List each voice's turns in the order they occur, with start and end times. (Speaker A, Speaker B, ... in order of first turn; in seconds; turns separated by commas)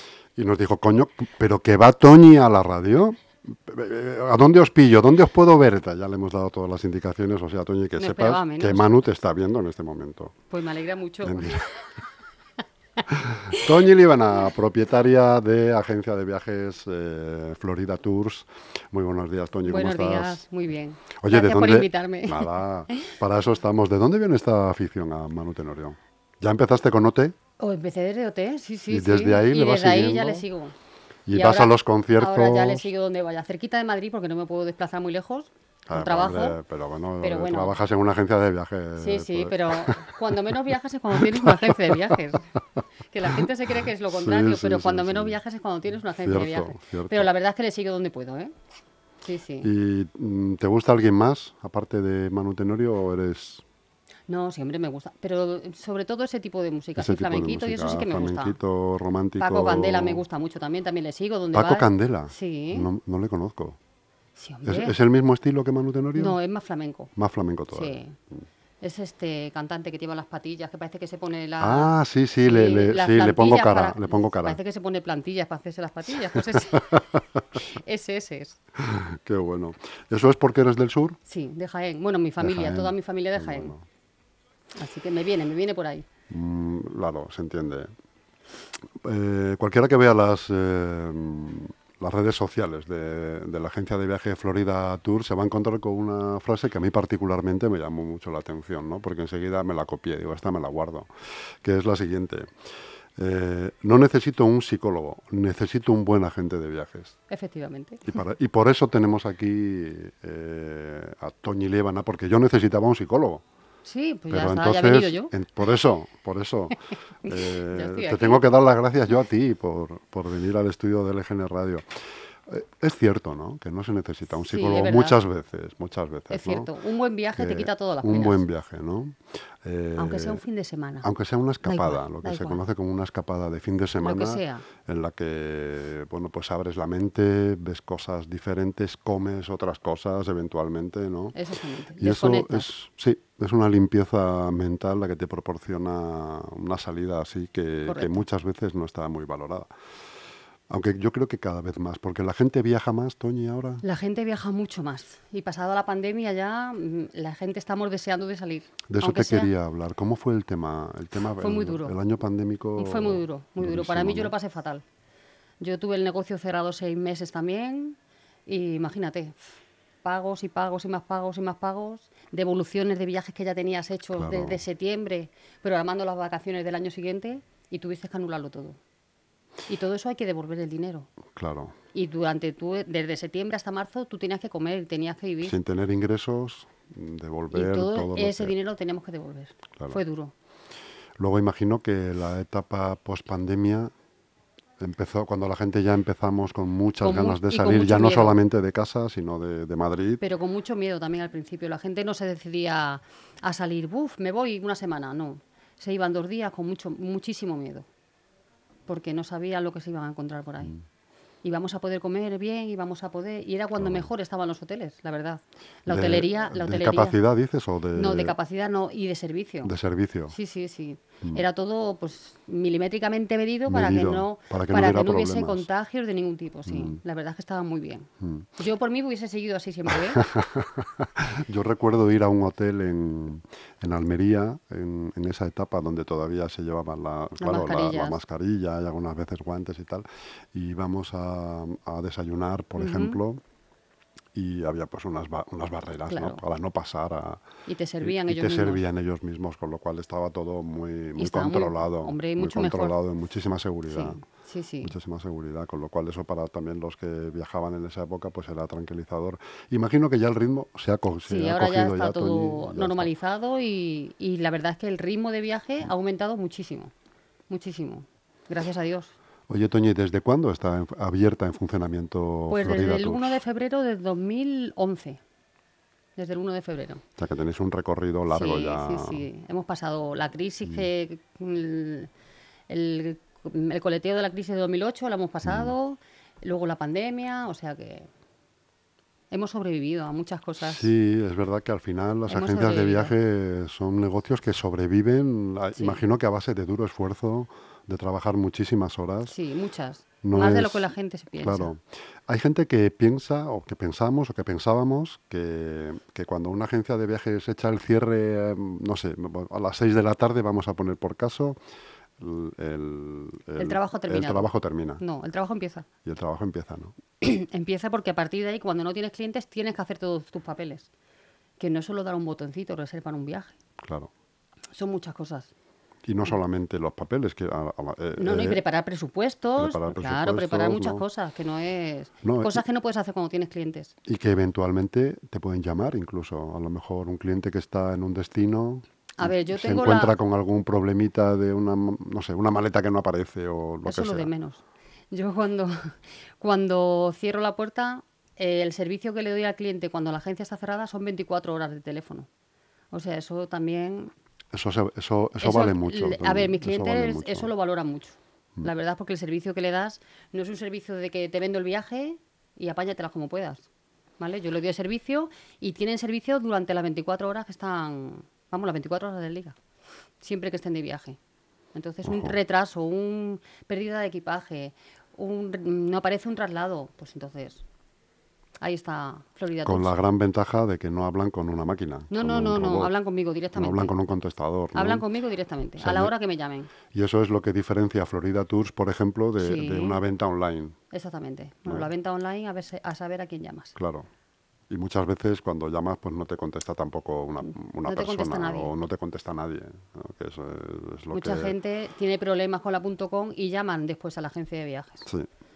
Speaker A: 0.3-10.4, Speaker B: 8.0-8.9, Speaker B: 10.5-11.8, Speaker A: 11.2-11.7, Speaker A: 13.1-20.4, Speaker B: 19.7-22.5, Speaker A: 21.2-27.4, Speaker B: 27.6-30.7, Speaker A: 28.9-30.4, Speaker A: 31.3-32.9, Speaker B: 31.3-36.6, Speaker A: 35.9-40.5, Speaker B: 37.2-37.8, Speaker B: 39.0-42.5, Speaker A: 41.1-42.1, Speaker B: 43.1-48.5, Speaker A: 44.1-45.4, Speaker A: 46.2-47.3, Speaker B: 49.2-49.7, Speaker A: 49.6-53.6, Speaker B: 54.3-58.5, Speaker A: 57.0-60.2, Speaker B: 59.4-62.9, Speaker A: 61.5-63.8, Speaker B: 64.3-65.0, Speaker A: 64.6-66.4, Speaker B: 66.1-67.1, Speaker A: 67.2-68.0, Speaker B: 67.7-68.2, Speaker B: 68.8-78.6, Speaker A: 71.6-74.6, Speaker A: 76.2-77.0, Speaker A: 78.8-81.2, Speaker B: 81.2-83.7, Speaker A: 82.4-83.8, Speaker B: 84.8-86.1, Speaker A: 86.3-87.9, Speaker A: 88.9-102.5, Speaker A: 103.2-107.2, Speaker B: 107.3-108.1, Speaker A: 108.0-113.4, Speaker B: 113.8-115.3, Speaker A: 114.3-126.7, Speaker B: 117.2-118.5, Speaker B: 124.4-125.2, Speaker B: 126.3-128.4, Speaker A: 127.3-130.4, Speaker B: 130.0-131.1, Speaker A: 131.0-141.3, Speaker B: 131.6-132.6, Speaker B: 134.0-134.7, Speaker B: 141.3-142.7, Speaker A: 142.0-149.7, Speaker B: 147.8-148.2, Speaker A: 150.7-153.8, Speaker B: 153.8-159.5, Speaker A: 158.9-164.3, Speaker B: 161.4-161.9, Speaker B: 162.8-164.8, Speaker B: 165.6-169.4, Speaker B: 170.0-178.8, Speaker A: 174.1-174.6, Speaker B: 179.7-181.1, Speaker A: 181.3-181.8, Speaker B: 181.9-185.6, Speaker A: 185.4-188.5, Speaker B: 187.5-190.3, Speaker A: 191.2-193.9, Speaker A: 194.8-200.2, Speaker B: 197.0-198.4, Speaker B: 200.2-207.9, Speaker B: 208.9-210.8, Speaker B: 211.4-217.2, Speaker A: 213.8-214.1, Speaker A: 215.9-218.3, Speaker B: 217.9-219.7, Speaker A: 219.6-220.3, Speaker B: 220.3-230.3, Speaker A: 223.7-225.7, Speaker A: 226.7-227.0, Speaker A: 228.2-228.5, Speaker A: 229.9-243.4, Speaker B: 237.4-238.2, Speaker B: 242.8-243.2, Speaker A: 244.3-247.4, Speaker B: 246.1-246.4, Speaker B: 247.7-248.8, Speaker A: 248.0-254.2, Speaker B: 251.2-252.9, Speaker B: 253.9-254.9, Speaker A: 254.8-263.1, Speaker B: 261.2-266.9, Speaker B: 267.5-269.1, Speaker A: 269.5-273.4, Speaker B: 272.5-275.2, Speaker B: 276.2-277.0, Speaker A: 277.2-279.2, Speaker B: 278.3-282.1, Speaker B: 282.7-288.1, Speaker A: 285.4-285.7, Speaker B: 289.3-290.9, Speaker A: 290.6-299.3, Speaker B: 292.3-293.1, Speaker B: 295.8-296.0, Speaker B: 299.2-301.7, Speaker A: 300.2-311.6, Speaker A: 312.2-315.0, Speaker B: 313.6-315.9, Speaker A: 316.0-316.9, Speaker B: 317.2-320.9, Speaker B: 321.6-323.6, Speaker A: 323.8-324.1, Speaker B: 324.7-325.5, Speaker A: 326.0-328.6, Speaker B: 328.2-333.9, Speaker A: 329.6-331.0, Speaker A: 332.2-332.6, Speaker A: 334.1-344.3, Speaker B: 339.2-340.1, Speaker B: 343.8-352.3, Speaker B: 352.9-354.1, Speaker A: 354.5-357.5, Speaker B: 355.4-363.7, Speaker B: 364.2-369.6, Speaker B: 370.2-371.2, Speaker B: 371.7-377.6, Speaker A: 372.0-372.4, Speaker B: 378.6-379.9, Speaker A: 379.6-382.9, Speaker B: 382.1-383.9, Speaker A: 383.5-385.0, Speaker B: 384.7-386.7, Speaker A: 385.8-386.1, Speaker A: 386.9-390.8, Speaker B: 389.4-390.0, Speaker B: 390.9-393.8, Speaker A: 393.8-394.1, Speaker A: 394.7-401.5, Speaker B: 397.8-398.7, Speaker B: 401.1-405.1